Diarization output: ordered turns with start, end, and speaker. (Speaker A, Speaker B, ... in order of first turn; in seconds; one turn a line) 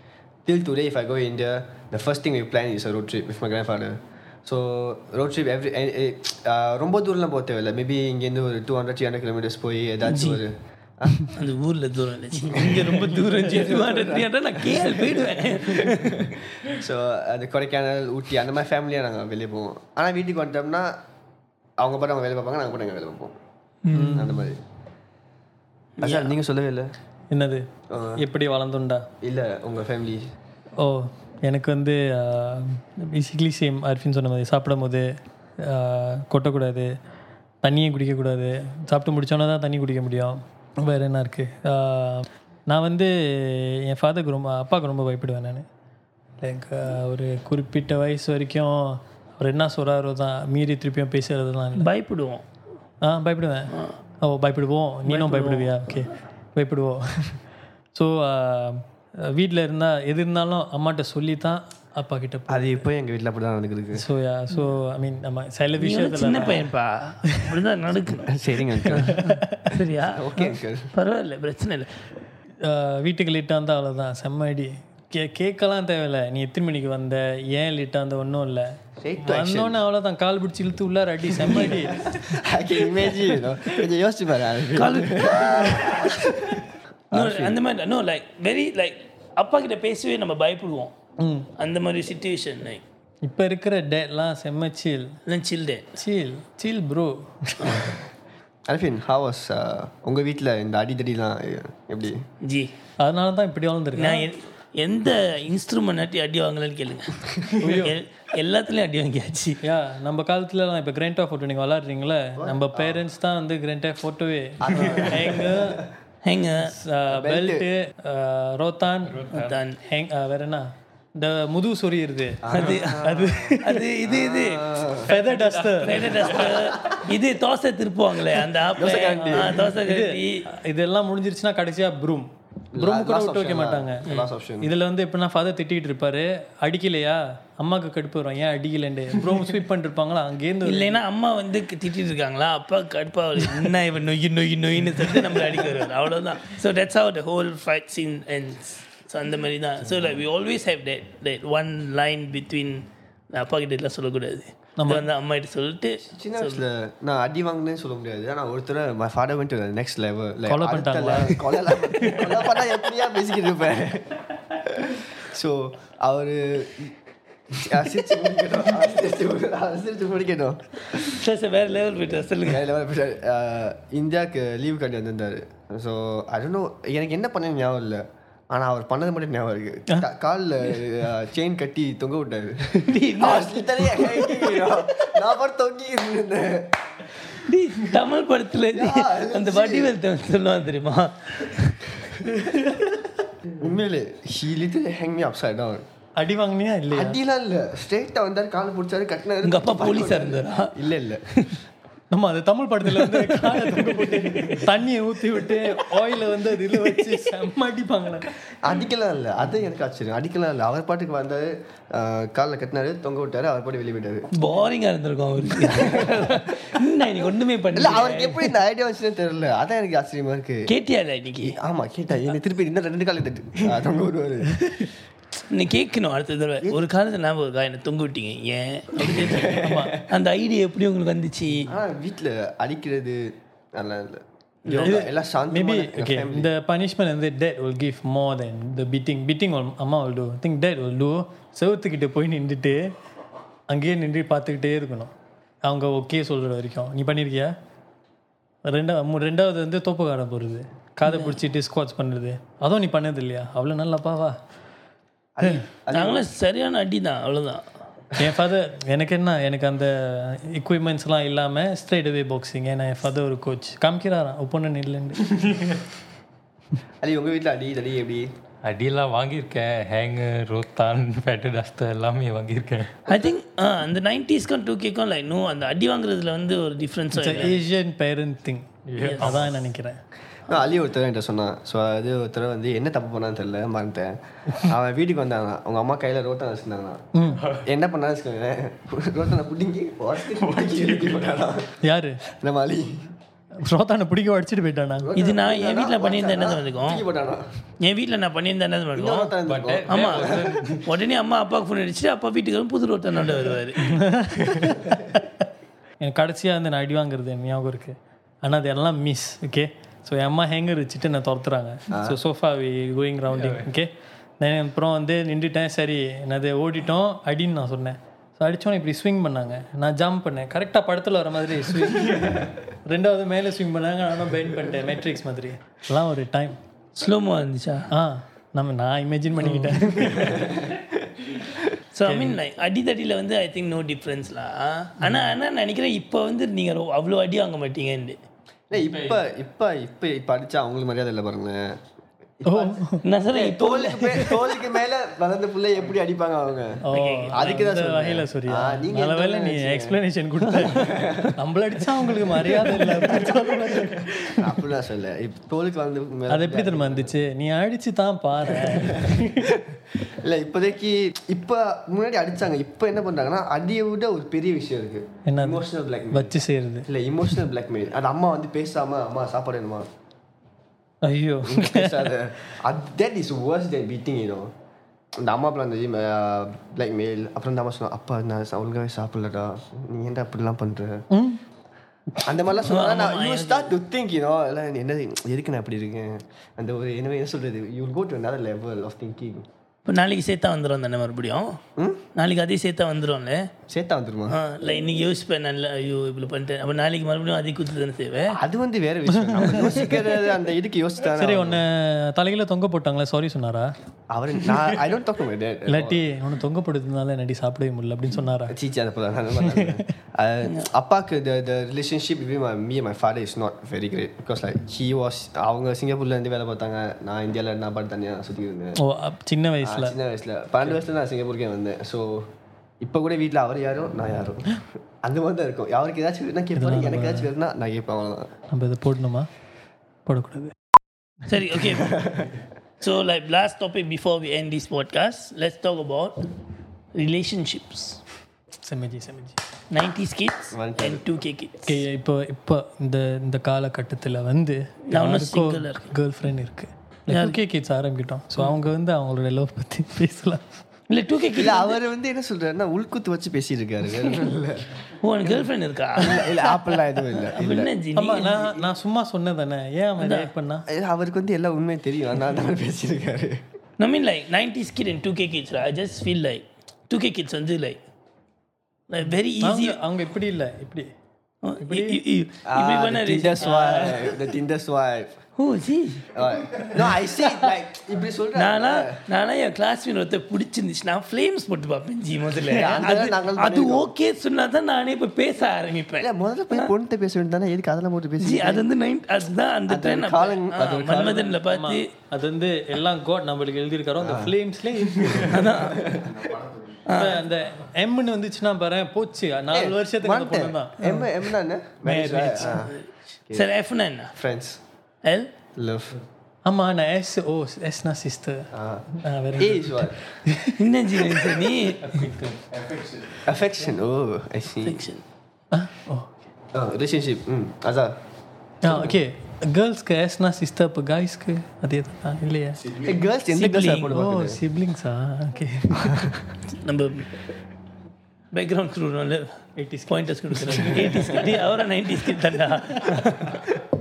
Speaker A: 0.5-11.3
Speaker B: 10.1-10.4
Speaker B: 11.3-16.3
Speaker A: 12.5-21.0
Speaker A: 21.8-23.4
Speaker B: 23.8-24.2
Speaker C: 23.9-24.4
Speaker A: 24.1-24.6
Speaker B: 26.0-26.3
Speaker A: 26.0-26.9
Speaker C: 27.3-27.6
Speaker A: 27.9-28.2
Speaker C: 28.2-29.1
Speaker A: 29.2-30.2
Speaker C: 30.8-36.9
Speaker C: 37.6-45.7
Speaker C: 46.4-51.9
Speaker B: 51.8-52.5
Speaker C: 53.0-57.4
Speaker B: 55.1-56.0
Speaker C: 57.9-62.9
Speaker A: 62.5-64.0
Speaker C: 64.0-66.7
Speaker B: 65.8-68.4
Speaker A: 68.3-69.2
Speaker C: 68.9-69.8
Speaker B: 68.9-70.4
Speaker A: 70.1-70.9
Speaker B: 70.9-71.9
Speaker C: 72.6-82.2
Speaker A: 79.0-79.8
Speaker B: 81.3-82.0
Speaker A: 81.5-87.6
Speaker B: 84.7-86.2
Speaker B: 87.1-90.9
Speaker C: 91.2-91.5
Speaker B: 91.6-92.8
Speaker C: 93.2-95.2
Speaker B: 95.3-96.0
Speaker C: 96.0-97.9
Speaker A: 98.7-102.3
Speaker B: 102.4-102.7
Speaker C: 103.0-104.3
Speaker B: 104.0-109.6
Speaker C: 107.6-107.9
Speaker C: 109.6-115.8
Speaker A: 112.4-113.0
Speaker A: 114.6-115.9
Speaker B: 116.2-116.7
Speaker C: 116.7-119.3
Speaker A: 117.1-117.7
Speaker D: 119.0-119.6
Speaker B: 119.3-119.8
Speaker C: 119.8-122.5
Speaker A: 122.4-125.2
Speaker B: 122.5-123.0
Speaker C: 123.0-123.8
Speaker B: 123.6-124.8
Speaker C: 125.0-126.1
Speaker D: 125.1-126.8
Speaker B: 125.8-130.4
Speaker A: 126.6-127.0
Speaker A: 128.7-129.7
Speaker C: 129.2-134.1
Speaker A: 132.7-134.7
Speaker C: 134.6-141.0
Speaker B: 140.7-156.6
Speaker C: 145.0-145.3
Speaker C: 154.8-155.1
Speaker A: 156.0-166.9
Speaker C: 160.5-162.2
Speaker A: 167.5-171.2
Speaker B: 170.9-172.7
Speaker A: 172.4-186.8
Speaker B: 182.8-184.5
Speaker B: 187.3-191.9
Speaker A: 188.7-189.9
Speaker A: 193.5-195.8
Speaker C: 196.2-197.2
Speaker A: 196.9-201.4
Speaker B: 199.4-200.8
Speaker C: 202.1-208.3
Speaker A: 208.6-214.3
Speaker B: 214.3-218.6
Speaker A: 215.6-216.7
Speaker A: 217.8-220.7
Speaker B: 220.7-221.6
Speaker A: 221.4-224.9
Speaker B: 225.5-229.6
Speaker A: 229.0-230.1
Speaker C: 229.6-230.0
Speaker B: 230.1-231.7
Speaker A: 231.7-236.5
Speaker B: 234.7-235.0
Speaker C: 234.8-242.9
Speaker C: 243.7-245.1
Speaker C: 245.6-247.5
Speaker C: 248.7-254.4
Speaker B: 251.1-251.4
Speaker A: 255.4-256.3
Speaker B: 255.9-257.6
Speaker C: 258.2-265.4
Speaker A: 267.0-268.3
Speaker D: 268.6-273.0
Speaker B: 273.1-277.6
Speaker C: 277.2-280.0
Speaker D: 278.9-279.6
Speaker B: 279.0-279.3
Speaker A: 280.5-287.1
Speaker C: 287.1-287.4
Speaker D: 287.4-287.6
Speaker A: 287.6-293.1
Speaker D: 290.5-291.4
Speaker C: 291.8-292.2
Speaker C: 293.6-295.1
Speaker A: 295.0-297.5
Speaker B: 295.1-297.0
Speaker B: 297.8-299.4
Speaker A: 298.9-300.6
Speaker D: 299.4-300.9
Speaker B: 299.9-303.9
Speaker C: 303.8-305.3
Speaker A: 304.6-305.0
Speaker C: 306.0-326.6
Speaker A: 311.9-312.2
Speaker D: 313.3-313.6
Speaker B: 327.0-327.9
Speaker C: 327.9-330.6
Speaker B: 331.9-338.2
Speaker C: 332.1-332.4
Speaker A: 338.7-341.8
Speaker D: 338.7-339.3
Speaker A: 342.4-350.0
Speaker C: 342.5-343.1
Speaker B: 343.0-344.4
Speaker C: 346.9-354.6
Speaker B: 346.9-347.4
Speaker A: 350.6-351.4
Speaker A: 354.3-357.1
Speaker C: 356.3-359.5
Speaker A: 358.5-366.4
Speaker C: 365.3-366.9
Speaker A: 366.9-369.9
Speaker C: 371.0-372.2
Speaker A: 371.4-374.5
Speaker A: 375.2-381.1
Speaker C: 381.1-381.4
Speaker A: 382.2-389.5
Speaker B: 382.7-383.7
Speaker B: 389.9-391.6
Speaker A: 391.8-392.1
Speaker B: 392.2-393.5
Speaker A: 393.7-394.4
Speaker B: 394.3-398.4
Speaker A: 398.3-401.6
Speaker C: 401.2-403.7
Speaker A: 404.1-406.0
Speaker C: 405.7-408.6
Speaker A: 408.5-418.8
Speaker C: 409.5-409.8
Speaker C: 418.8-420.0
Speaker A: 419.6-422.3
Speaker A: 422.8-428.3
Speaker C: 426.6-427.3
Speaker C: 428.5-429.3
Speaker C: 430.1-430.5
Speaker B: 431.3-432.1
Speaker A: 431.9-432.4
Speaker B: 432.8-436.2
Speaker B: 436.9-438.0
Speaker C: 438.6-439.4
Speaker B: 439.7-441.8
Speaker A: 440.5-441.0
Speaker C: 441.7-450.6
Speaker B: 444.9-445.9
Speaker B: 447.1-447.4
Speaker B: 450.9-451.8
Speaker A: 451.4-457.7
Speaker B: 455.0-458.5
Speaker C: 457.9-460.7
Speaker B: 460.0-460.3
Speaker A: 460.7-463.4
Speaker B: 463.8-467.8
Speaker B: 468.9-469.8
Speaker C: 469.4-470.9
Speaker B: 471.4-474.1
Speaker C: 471.6-472.0
Speaker A: 472.4-475.2
Speaker B: 475.4-476.2
Speaker A: 476.1-479.0
Speaker B: 478.4-486.7
Speaker A: 482.5-483.9
Speaker A: 486.0-488.6
Speaker B: 488.2-491.9
Speaker A: 489.7-491.4
Speaker C: 491.5-495.5
Speaker A: 494.0-494.3
Speaker A: 495.0-496.8
Speaker B: 495.3-495.9
Speaker B: 496.9-497.2
Speaker C: 496.9-501.3
Speaker A: 499.5-502.8
Speaker C: 501.8-502.6
Speaker B: 502.4-504.1
Speaker A: 504.1-504.6
Speaker B: 505.0-505.3
Speaker A: 505.6-506.0
Speaker C: 506.4-511.3
Speaker A: 508.5-510.0
Speaker B: 510.6-511.9
Speaker D: 511.7-513.2
Speaker A: 513.2-514.8
Speaker B: 514.6-515.0
Speaker C: 515.5-516.3
Speaker A: 516.5-518.0
Speaker C: 518.6-522.8
Speaker A: 522.7-524.4
Speaker B: 523.3-523.9
Speaker C: 523.9-526.2
Speaker B: 526.5-527.1
Speaker B: 528.3-533.5
Speaker C: 529.6-531.4
Speaker C: 532.3-533.0